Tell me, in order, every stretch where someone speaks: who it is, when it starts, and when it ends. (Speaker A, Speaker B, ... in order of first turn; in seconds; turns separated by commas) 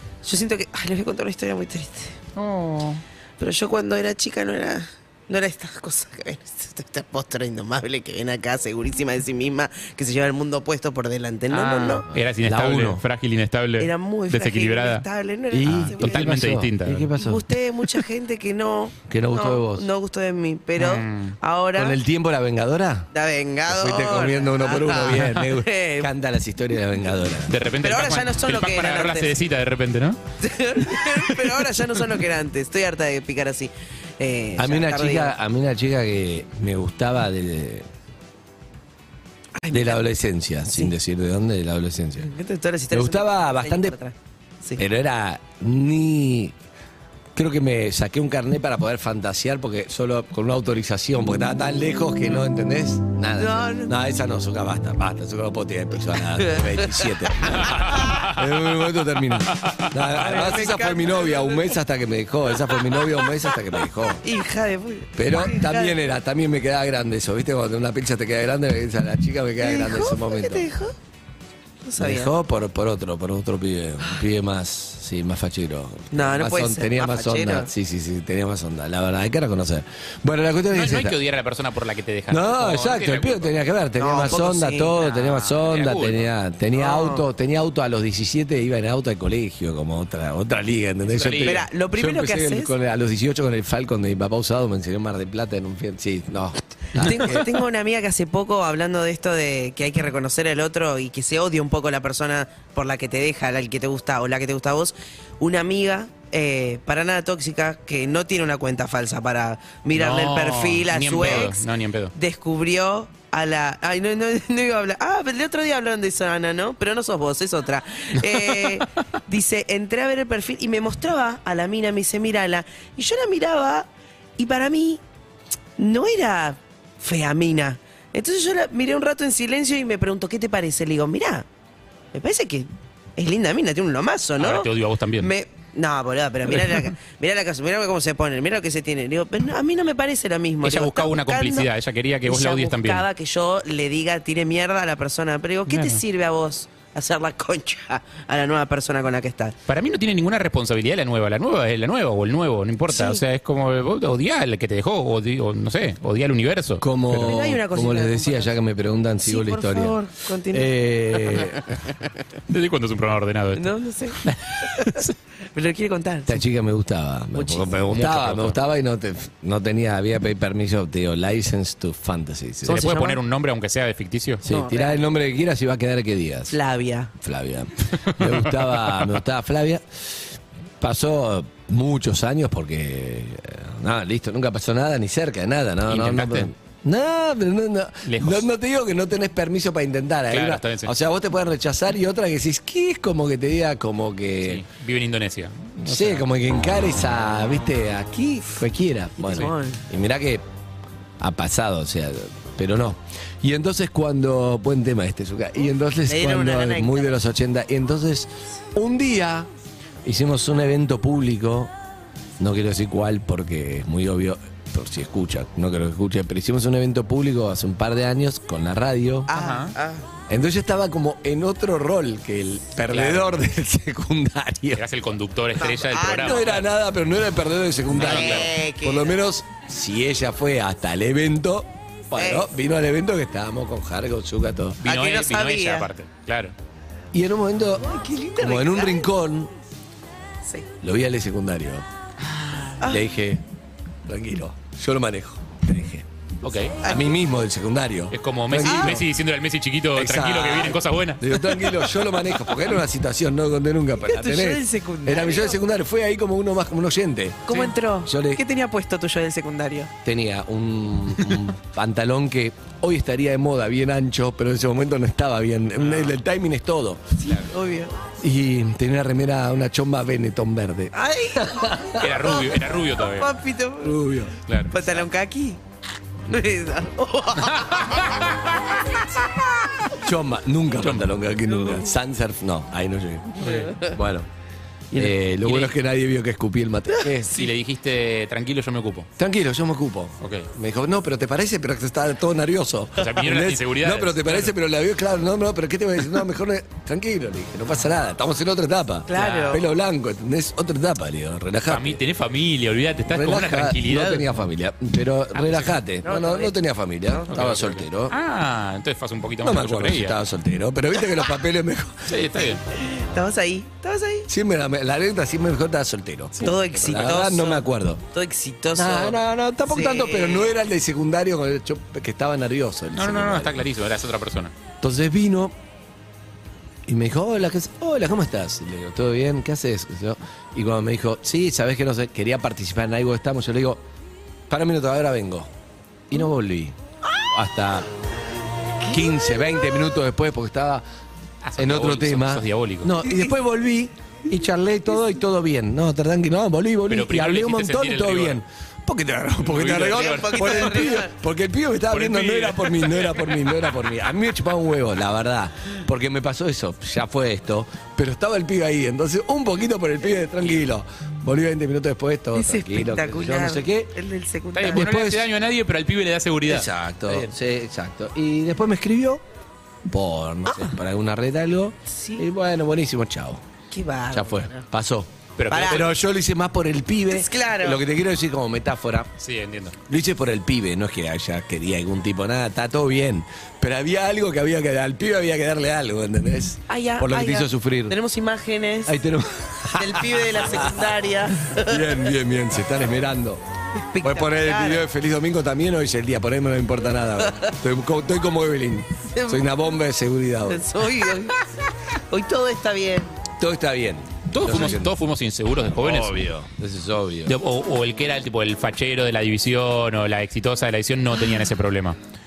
Speaker A: 0.2-2.2, Speaker B: 2.4-3.0, Speaker A: 3.4-12.0, Speaker B: 11.5-15.1, Speaker C: 12.4-13.0, Speaker A: 13.8-16.4, Speaker C: 15.5-17.4, Speaker B: 15.7-17.1, Speaker A: 17.2-22.0, Speaker C: 19.1-19.9, Speaker B: 20.8-21.3, Speaker C: 21.8-23.1, Speaker A: 23.1-26.1, Speaker C: 23.7-27.5, Speaker B: 27.5-30.2, Speaker A: 27.8-29.3, Speaker A: 30.4-35.3, Speaker C: 34.6-37.9, Speaker A: 39.6-40.1, Speaker C: 39.7-42.3, Speaker A: 42.2-44.8, Speaker C: 42.9-43.9, Speaker C: 44.8-46.5, Speaker C: 47.4-64.2, Speaker A: 53.4-53.9, Speaker A: 56.4-57.2, Speaker B: 57.7-58.2, Speaker A: 60.1-61.8, Speaker A: 62.7-63.5, Speaker A: 64.2-66.0, Speaker C: 65.2-70.7, Speaker A: 69.6-70.9, Speaker A: 71.8-72.3, Speaker C: 72.0-81.2, Speaker A: 76.1-77.7, Speaker B: 80.7-83.5, Speaker C: 82.3-97.5, Speaker A: 84.0-84.9, Speaker B: 85.0-86.3, Speaker A: 86.7-87.2, Speaker B: 91.1-91.6, Speaker A: 91.4-92.7, Speaker A: 97.0-111.6, Speaker B: 109.9-112.1, Speaker A: 112.2-123.9, Speaker A: 124.4-125.0, Speaker A: 125.8-131.4, Speaker A: 132.1-141.7, Speaker B: 134.4-135.3, Speaker B: 136.5-136.9, Speaker B: 140.6-143.1, Speaker A: 142.2-149.6, Speaker B: 145.7-146.0, Speaker B: 149.7-157.3, Speaker A: 152.9-153.2, Speaker C: 156.8-159.9, Speaker A: 157.2-158.5, Speaker A: 159.2-161.5, Speaker C: 160.5-161.6, Speaker B: 162.5-163.7, Speaker A: 163.6-165.0, Speaker B: 164.2-165.2, Speaker A: 165.5-166.4, Speaker C: 166.3-172.9, Speaker A: 167.3-167.7, Speaker B: 167.9-168.6, Speaker A: 172.7-173.2, Speaker B: 172.7-174.4, Speaker C: 174.4-176.6, Speaker A: 174.5-175.1, Speaker A: 176.5-177.1, Speaker C: 177.2-180.2, Speaker B: 178.2-179.2, Speaker C: 180.8-194.6, Speaker B: 185.8-186.5, Speaker B: 188.1-188.5, Speaker B: 190.3-190.9, Speaker B: 194.4-196.2, Speaker C: 195.8-200.4, Speaker A: 199.2-199.8, Speaker C: 201.2-209.5, Speaker A: 206.1-207.1, Speaker C: 210.1-211.7, Speaker C: 212.4-219.3, Speaker A: 219.3-220.1, Speaker B: 219.3-219.7, Speaker C: 220.3-224.8, Speaker B: 222.9-223.4, Speaker B: 224.7-226.7, Speaker A: 225.6-226.5, Speaker C: 226.2-234.8, Speaker B: 227.9-228.5, Speaker A: 227.9-229.2, Speaker A: 232.2-232.5, Speaker B: 234.8-236.6, Speaker A: 234.8-235.9, Speaker C: 237.1-239.5, Speaker A: 237.8-239.1, Speaker C: 240.8-241.8, Speaker A: 242.7-243.0, Speaker C: 242.8-243.4, Speaker C: 244.1-246.1, Speaker B: 246.4-246.8, Speaker A: 246.8-247.1, Speaker C: 246.9-249.1, Speaker B: 248.1-251.6, Speaker A: 248.6-249.0, Speaker C: 249.9-257.5, Speaker A: 254.0-255.6, Speaker A: 257.5-259.9, Speaker C: 258.1-258.4, Speaker C: 260.1-267.2, Speaker B: 265.8-266.2, Speaker A: 267.2-267.9, Speaker C: 268.2-272.0, Speaker A: 270.9-274.0, Speaker B: 272.0-273.3, Speaker C: 273.8-274.3, Speaker B: 274.5-275.1, Speaker A: 274.7-275.6, Speaker A: 276.3-279.9, Speaker B: 277.5-278.3, Speaker C: 280.0-284.3, Speaker B: 280.8-281.1, Speaker A: 281.6-281.9, Speaker A: 283.4-283.9, Speaker B: 283.4-283.8, Speaker C: 284.9-287.4, Speaker B: 284.9-285.7, Speaker B: 287.3-289.1, Speaker C: 289.2-302.0, Speaker B: 290.2-290.5, Speaker B: 293.0-294.5, Speaker A: 299.1-299.6, Speaker B: 299.1-299.6, Speaker B: 301.7-304.3, Speaker C: 303.1-308.1, Speaker B: 305.3-305.8, Speaker A: 306.0-306.6, Speaker B: 307.3-310.2, Speaker C: 309.4-312.1, Speaker B: 312.1-312.6, Speaker A: 312.7-314.3, Speaker C: 314.3-318.0, Speaker A: 316.4-320.6, Speaker C: 318.8-323.7, Speaker B: 322.9-324.5, Speaker C: 324.8-325.5, Speaker C: 326.9-333.8, Speaker C: 334.5-335.5, Speaker C: 336.1-336.8, Speaker C: 337.3-337.9, Speaker C: 338.9-340.8, Speaker B: 341.4-342.9, Speaker C: 341.6-363.9, Speaker B: 346.9-348.4, Speaker B: 349.4-351.0, Speaker A: 349.8-351.1, Speaker B: 351.9-353.9, Speaker A: 362.3-364.9, Speaker B: 364.6-367.3, Speaker C: 364.7-365.2, Speaker C: 366.5-369.2, Speaker C: 369.9-373.4, Speaker A: 371.9-372.2, Speaker A: 373.7-374.6, Speaker C: 374.1-379.1, Speaker B: 375.4-375.9, Speaker A: 375.5-375.9, Speaker A: 377.1-377.8, Speaker B: 379.2-379.8, Speaker C: 379.9-387.9, Speaker A: 386.7-388.9, Speaker C: 388.9-390.9, Speaker A: 389.7-392.1, Speaker C: 391.4-393.4, Speaker A: 393.9-394.8, Speaker C: 394.0-400.6, Speaker A: 397.2-397.5, Speaker A: 399.1-399.5, Speaker A: 400.5-403.1, Speaker C: 403.4-404.9, Speaker B: 404.3-406.3, Speaker C: 405.7-407.3, Speaker B: 407.2-412.0